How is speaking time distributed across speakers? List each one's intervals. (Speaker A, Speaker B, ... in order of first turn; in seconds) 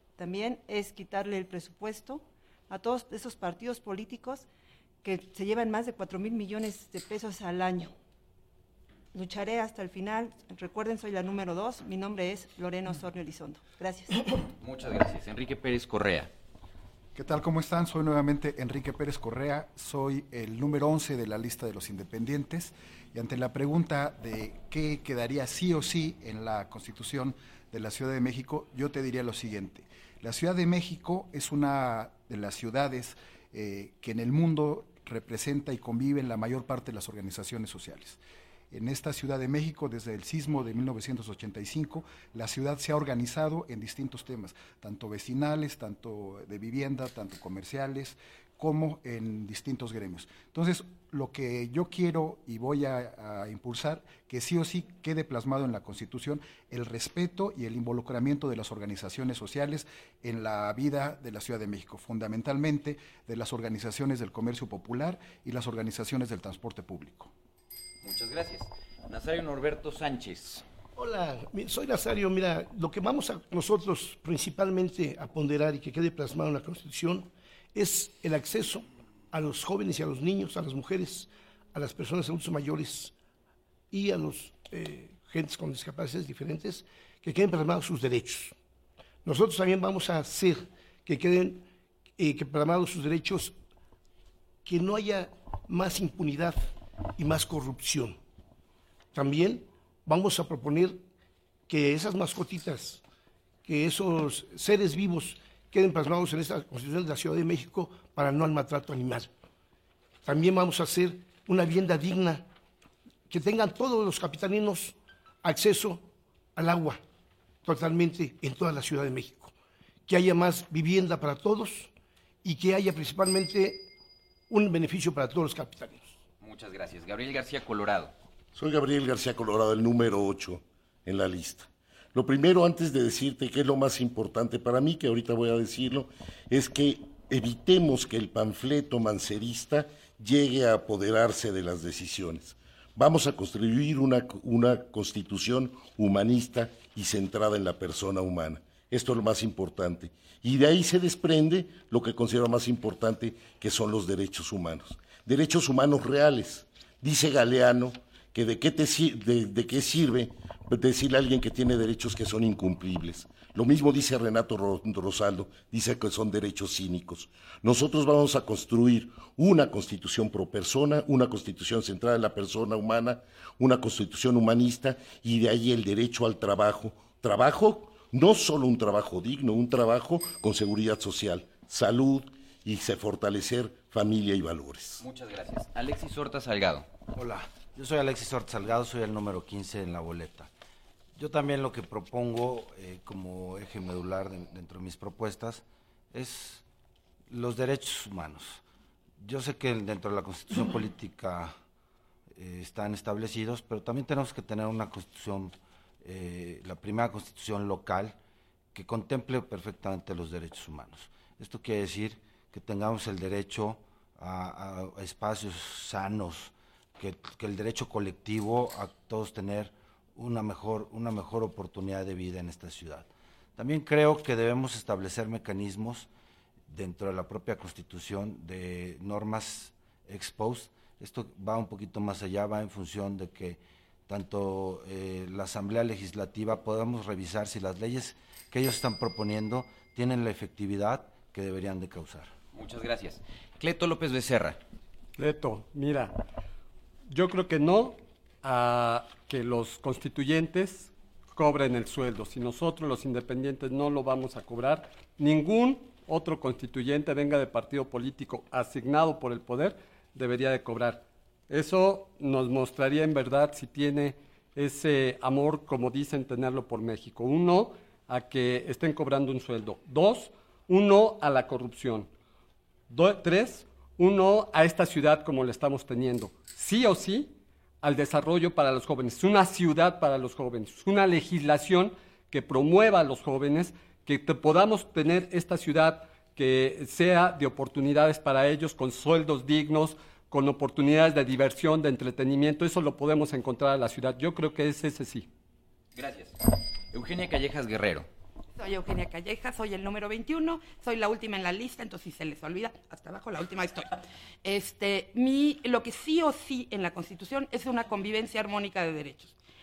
Speaker A: 0.2-4.5, 5.0-7.9, 9.1-14.2
Speaker B: 14.6-16.3, 68.0-70.6, 126.4-128.1, 185.0-186.8, 242.5-244.6, 295.9-296.4, 296.9-298.1
Speaker C: 17.1-38.2, 38.7-67.3
Speaker D: 71.0-83.1, 83.9-88.5, 89.2-91.7, 92.2-93.5, 94.6-98.2, 99.1-101.0, 101.7-103.0, 103.6-109.3, 110.2-112.4, 113.3-117.0, 117.6-119.5, 120.1-121.9, 122.4-123.9, 124.5-126.2
Speaker E: 128.5-185.0
Speaker F: 187.1-190.5, 191.2-196.6, 197.3-198.6, 199.2-201.5, 202.3-208.2, 208.7-226.1, 226.7-242.3
Speaker G: 245.2-246.2, 247.1-272.1, 272.9-295.3
Speaker H: 298.5-309.3